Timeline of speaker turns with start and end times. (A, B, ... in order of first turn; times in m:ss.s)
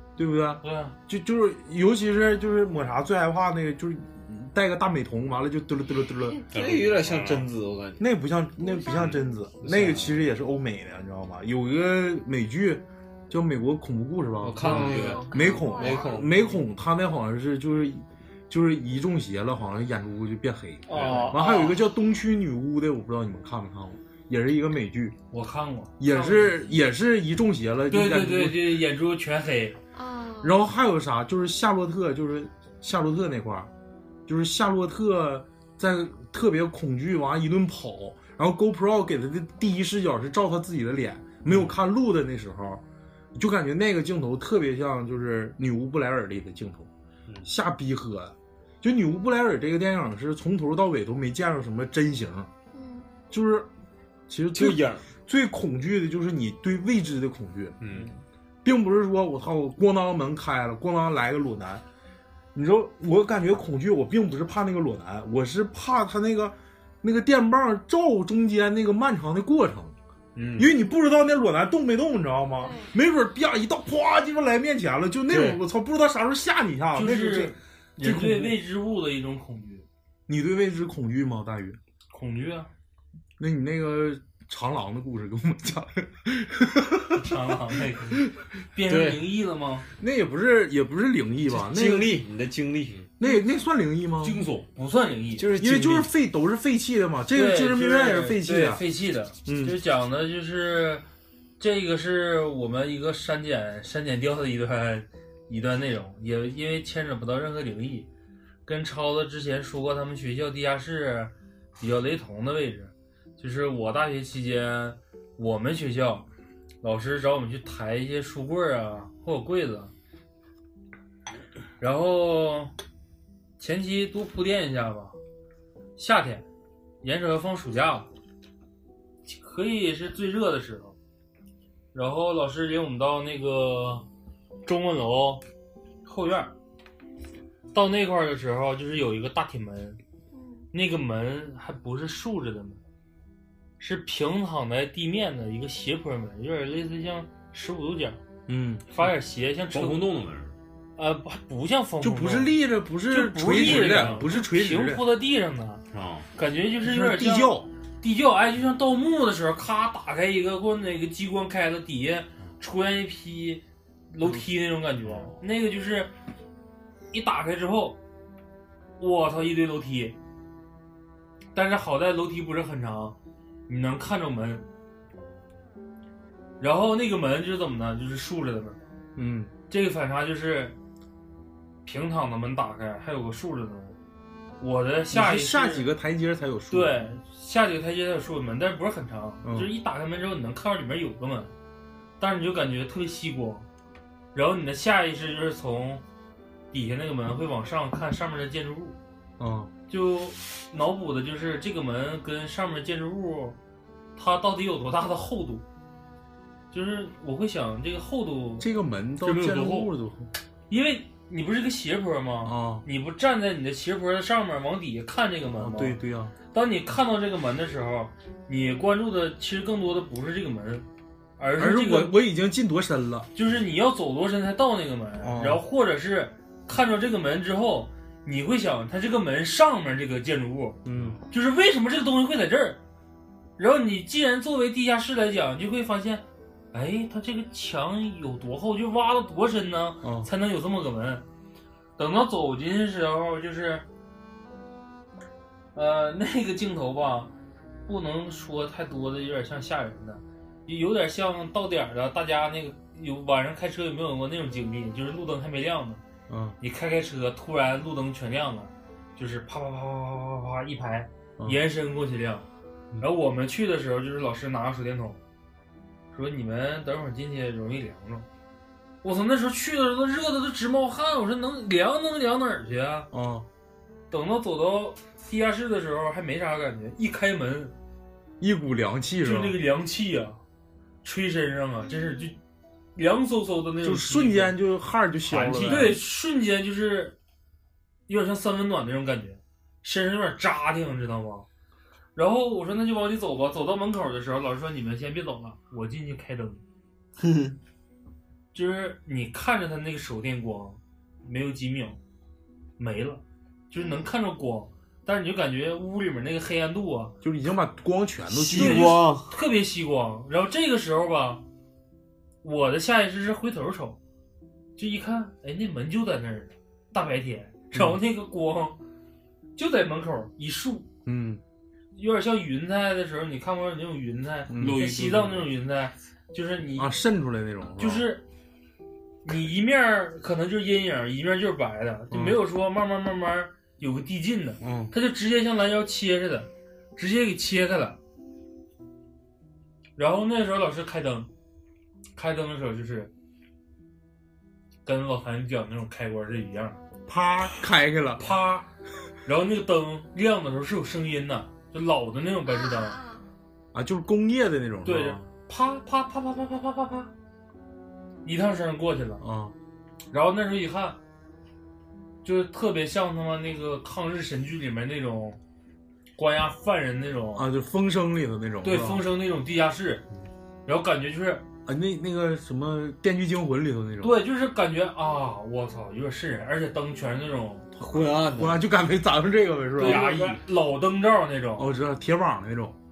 0:00.2-0:06.4 A
0:00.6-0:01.0 B
0:06.5-0:07.5 C
0:06.5-0:08.1 D
0:08.0-0:25.2 A
0:08.6-0:09.2 E
0:08.9-0:09.2 C
0:09.6-0:10.2 D
0:14.4-0:16.6 D
0:14.7-0:15.1 C
0:14.7-0:16.4 E
0:20.9-0:21.8 D
0:21.0-0:21.2 C
0:21.1-0:21.4 B
0:25.3-0:26.6 B
0:26.0-0:28.8 A
0:27.9-0:29.8 B
0:29.9-0:30.6 E
0:30.4-0:33.7 A
0:34.3-0:42.8 A
0:43.4-0:46.9 A
0:47.4-0:52.5 A
0:52.7-0:53.1 E
0:53.3-0:53.7 A
0:54.3-0:57.8 A
0:54.5-0:55.1 D
0:57.8-0:58.1 C
0:58.6-1:01.8 A
1:02.6-1:10.0 A
1:10.4-1:10.7 D
1:10.6-1:18.6 A
1:12.6-1:12.9 E
1:15.3-1:15.6 D
1:17.0-1:19.9 B
1:20.3-1:21.8 A
1:22.1-1:22.7 B
1:23.4-1:27.3 A
1:27.2-1:29.9 B
1:28.9-1:29.2 D
1:30.0-1:32.2 A
1:31.5-1:33.0 D
1:33.2-1:34.4 A
1:34.2-1:34.7 C
1:34.8-1:35.5 B
1:35.4-1:36.1 D
1:35.6-1:38.8 A
1:37.3-1:41.0 B
1:39.4-1:39.8 A
1:41.6-1:48.1 B
1:48.7-1:56.3 B
1:56.8-1:59.9 B
2:01.8-2:02.7 B
2:03.6-2:05.2 B
2:06.0-2:06.5 B
2:07.0-2:08.1 B
2:09.3-2:11.0 B
2:11.9-2:14.1 B
2:14.6-2:15.4 B
2:16.0-2:16.5 B
2:17.7-2:20.0 B
2:20.3-2:20.7 E
2:20.7-2:22.8 B
2:23.8-2:28.2 B
2:28.5-2:28.9 A
2:28.9-2:30.1 B
2:29.7-2:30.5 C
2:31.0-2:32.6 B
2:32.0-2:35.0 A
2:33.1-2:35.8 B
2:33.5-2:34.2 C
2:35.9-2:36.3 C
2:36.4-2:46.1 B
2:36.8-2:37.7 A
2:47.1-2:48.0 B
2:49.0-2:50.2 B
2:51.6-2:53.2 B
2:53.7-2:54.7 B
2:56.6-2:58.8 B
2:59.2-2:59.5 A
2:59.7-3:00.8 B
3:01.9-3:04.0 B
3:04.6-3:05.9 B
3:05.1-3:07.1 A
3:06.7-3:11.5 B
3:09.4-3:09.7 A
3:12.2-3:13.7 B
3:14.3-3:16.0 B
3:16.7-3:19.0 B
3:19.4-3:19.7 A
3:19.9-3:23.6 B
3:24.2-3:25.6 B
3:26.7-3:28.7 B
3:28.6-3:30.3 A
3:29.2-3:29.9 B
3:30.7-3:36.0 B
3:32.4-3:32.8 A
3:35.6-3:36.3 A
3:36.5-3:40.9 B
3:41.4-3:42.2 B
3:41.6-3:43.3 A
3:43.4-3:50.8 B
3:45.2-3:45.6 A
3:50.8-3:51.2 A
3:51.3-3:52.8 B
3:53.6-4:01.2 B
4:00.0-4:00.3 A
4:02.0-4:03.8 B
4:05.8-4:07.3 B
4:07.9-4:16.0 B
4:16.3-4:16.6 A
4:16.6-4:22.5 B
4:23.0-4:25.2 B
4:26.1-4:28.3 B
4:29.0-4:33.1 B
4:33.1-4:33.5 A
4:34.1-4:37.7 B
4:38.4-4:39.6 A
4:39.2-4:40.4 B
4:41.0-4:42.4 B
4:43.0-4:44.6 B
4:43.8-4:46.0 A
4:45.3-4:47.2 B
4:48.1-4:51.5 B
4:52.2-4:56.6 B
4:57.2-4:57.5 D
4:58.5-5:02.0 B
5:02.8-5:07.2 B
5:03.8-5:04.1 E
5:07.2-5:09.0 A
5:08.3-5:09.3 D
5:08.6-5:11.4 B
5:12.4-5:14.0 B
5:14.8-5:18.8 B
5:17.7-5:18.0 A
5:19.6-5:20.9 B
5:21.1-5:21.4 A
5:22.0-5:26.9 B
5:24.5-5:24.8 A
5:24.6-5:25.5 C
5:26.8-5:28.1 A
5:27.8-5:28.2 B
5:29.2-5:38.0 B
5:32.1-5:32.4 A
5:34.6-5:34.9 A
5:40.0-5:41.3 B
5:42.2-5:43.1 B
5:44.8-5:46.8 B
5:47.1-5:48.4 A
5:48.2-5:48.7 B
5:49.2-5:53.0 B
5:52.5-5:53.3 E
5:53.7-5:55.3 A
5:54.8-5:57.1 B
5:58.2-5:59.2 B
5:59.2-5:59.6 A
6:00.1-6:01.0 B
6:02.2-6:05.4 B
6:06.2-6:07.5 B
6:07.4-6:09.1 A
6:08.6-6:10.0 B
6:10.6-6:11.4 B
6:11.7-6:14.2 A
6:14.0-6:17.7 B
6:17.8-6:20.3 A
6:17.8-6:18.6 D
6:19.8-6:21.7 B
6:21.6-6:22.8 A